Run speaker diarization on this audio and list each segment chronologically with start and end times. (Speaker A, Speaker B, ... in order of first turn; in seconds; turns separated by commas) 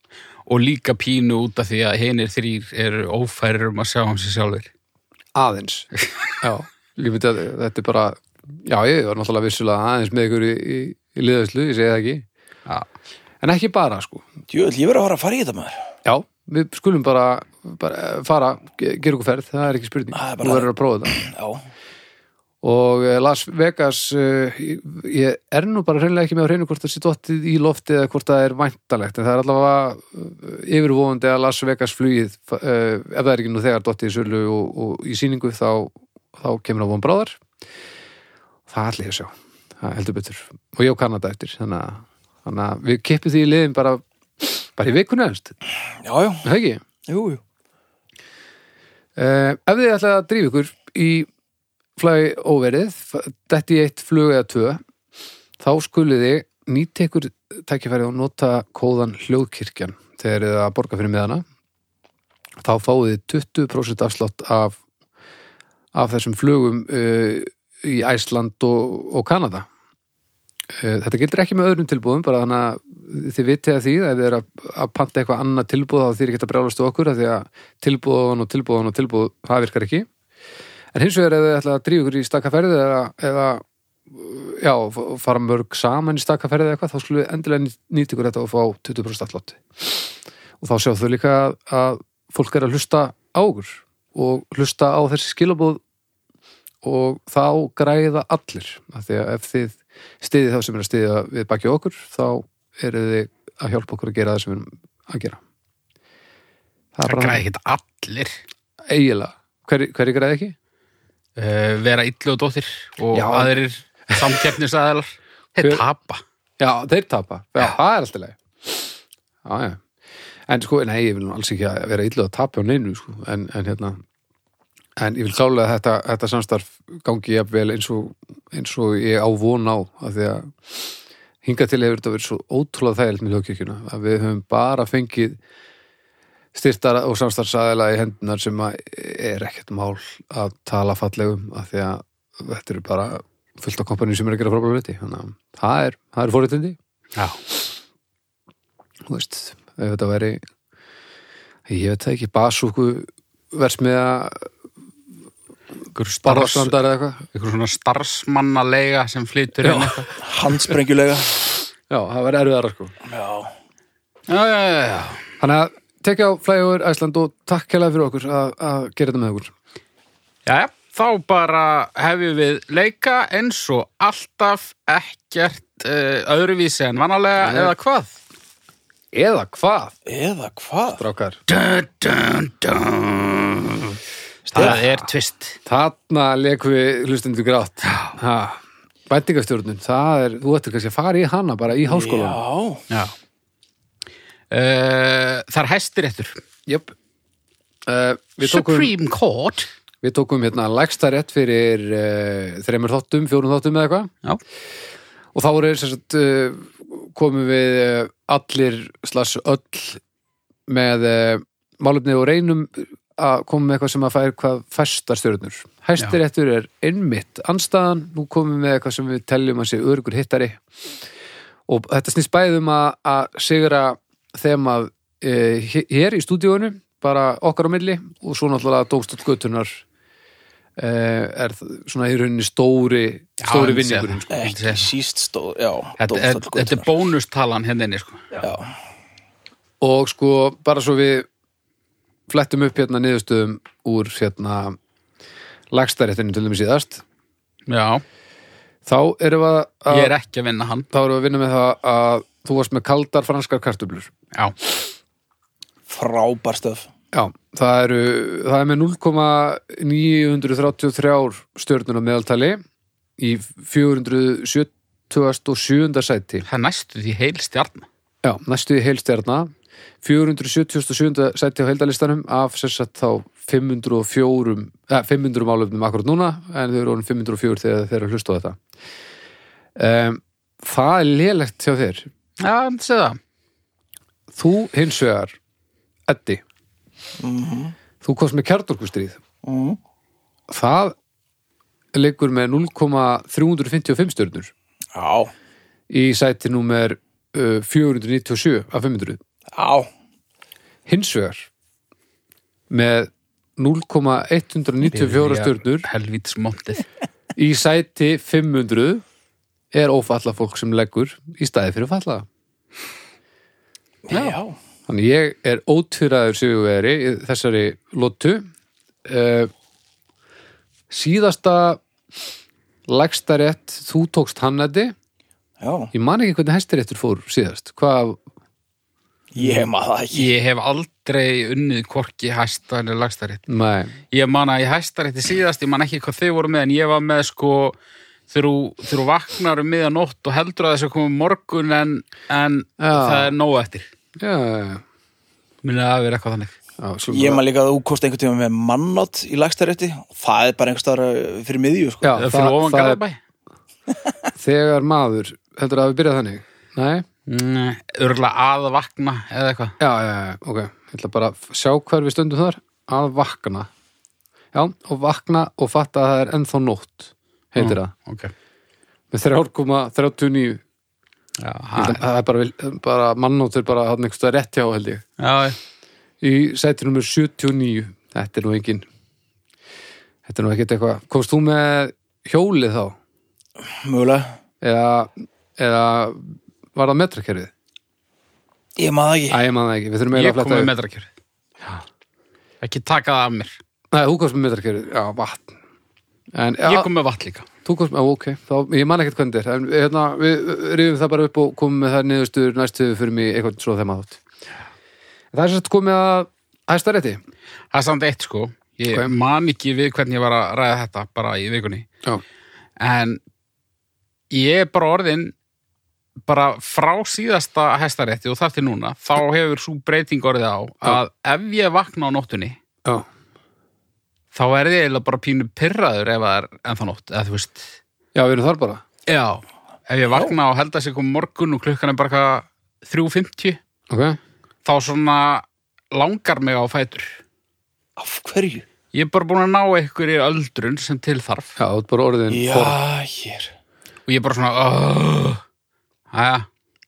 Speaker A: 0.5-4.7, Speaker B: 5.3-5.9, Speaker B: 6.4-12.2, Speaker B: 13.4-14.3, Speaker C: 14.5-15.8, Speaker B: 16.1-21.1, Speaker C: 20.1-21.6, Speaker B: 22.6-37.4, Speaker B: 38.7-45.5, Speaker C: 46.0-46.5, Speaker B: 46.4-46.8, Speaker C: 47.1-47.4, Speaker B: 49.2-51.3, Speaker B: 52.0-54.8, Speaker B: 55.6-61.4, Speaker B: 62.6-64.8, Speaker B: 65.9-69.7, Speaker B: 70.7-80.1, Speaker B: 80.9-95.8, Speaker B: 96.8-105.4, Speaker B: 107.0-107.4, Speaker A: 107.1-108.4, Speaker B: 108.9-110.6, Speaker A: 111.4-116.2, Speaker B: 113.1-113.6, Speaker B: 114.1-114.5, Speaker B: 115.6-115.8, Speaker B: 116.6-119.8, Speaker B: 120.5-124.0, Speaker B: 125.0-135.4, Speaker B: 136.5-146.8, Speaker B: 149.1-150.4, Speaker B: 151.7-154.5, Speaker A: 155.9-156.8, Speaker B: 156.2-157.2, Speaker A: 157.3-160.1, Speaker B: 159.6-160.0, Speaker C: 160.2-161.4, Speaker B: 161.9-162.9, Speaker C: 163.1-163.5, Speaker A: 164.3-165.2, Speaker B: 165.4-169.5, Speaker A: 170.5-178.2, Speaker B: 177.4-177.7, Speaker B: 179.1-179.9, Speaker C: 180.1-181.0, Speaker B: 181.0-181.4, Speaker A: 181.5-184.0, Speaker C: 184.5-184.8, Speaker B: 184.5-185.1, Speaker A: 184.6-185.6, Speaker B: 185.7-192.4, Speaker A: 187.8-188.2, Speaker C: 191.8-192.8, Speaker A: 194.5-196.4, Speaker B: 196.7-196.9, Speaker B: 197.9-198.9, Speaker A: 198.4-199.7, Speaker B: 200.0-204.1, Speaker B: 205.3-210.0, Speaker B: 210.7-220.6, Speaker B: 221.7-229.8, Speaker B: 230.8-234.3, Speaker A: 233.4-234.9, Speaker C: 234.3-236.9, Speaker A: 236.0-238.3, Speaker C: 238.4-238.7, Speaker B: 239.8-241.3, Speaker B: 242.3-244.8, Speaker B: 245.7-247.0, Speaker A: 247.7-248.0, Speaker B: 248.9-250.2, Speaker A: 249.9-250.9, Speaker B: 250.9-254.1, Speaker C: 255.9-256.9, Speaker B: 257.1-262.6, Speaker B: 263.2-266.5, Speaker A: 266.5-267.9, Speaker B: 268.2-269.5, Speaker B: 270.0-278.6, Speaker B: 279.8-282.1, Speaker A: 282.4-283.2, Speaker B: 284.3-285.4, Speaker B: 286.1-286.4, Speaker C: 287.2-287.8, Speaker B: 288.0-289.2, Speaker C: 289.4-289.8, Speaker B: 290.5-290.9, Speaker B: 291.9-294.5, Speaker C: 294.9-295.3, Speaker B: 295.9-299.2, Speaker C: 299.6-299.9, Speaker B: 300.9-301.5, Speaker B: 302.7-305.9, Speaker A: 304.9-306.9, Speaker B: 307.4-309.0, Speaker B: 309.7-312.3, Speaker C: 314.1-314.6, Speaker B: 314.9-318.5, Speaker B: 319.1-319.5, Speaker B: 320.9-321.8, Speaker B: 322.9-324.9, Speaker C: 325.6-325.9, Speaker B: 325.9-328.2, Speaker C: 329.3-330.3, Speaker A: 330.1-333.4, Speaker B: 333.5-334.0, Speaker A: 334.1-337.8, Speaker A: 338.3-343.9, Speaker B: 342.8-343.3, Speaker B: 344.2-344.8, Speaker A: 345.6-346.6, Speaker B: 346.8-347.4, Speaker C: 347.1-352.2, Speaker B: 352.0-353.0, Speaker A: 352.2-353.2, Speaker B: 354.4-357.1, Speaker A: 357.3-359.8, Speaker B: 359.8-363.7, Speaker B: 364.5-367.9, Speaker A: 367.6-368.3, Speaker B: 369.1-370.6, Speaker A: 371.4-372.0, Speaker B: 371.8-375.0, Speaker A: 375.2-375.6, Speaker B: 376.2-378.9, Speaker B: 380.3-383.0, Speaker C: 383.8-384.4, Speaker B: 384.6-387.5, Speaker C: 388.8-389.4, Speaker B: 389.3-390.7, Speaker A: 390.1-391.1, Speaker A: 392.6-393.6, Speaker B: 393.9-395.6, Speaker B: 396.3-396.9, Speaker A: 396.6-397.5, Speaker B: 397.6-404.2, Speaker B: 405.3-407.2, Speaker A: 407.7-411.9, Speaker A: 412.8-413.2, Speaker A: 414.3-415.3, Speaker A: 416.3-422.6, Speaker A: 424.3-427.7, Speaker B: 428.1-428.8, Speaker A: 429.1-433.6, Speaker B: 433.9-434.2, Speaker A: 434.6-437.1, Speaker C: 438.0-438.6, Speaker A: 438.9-441.6, Speaker B: 441.6-442.8, Speaker C: 442.3-443.5, Speaker A: 444.1-445.4, Speaker A: 446.1-446.5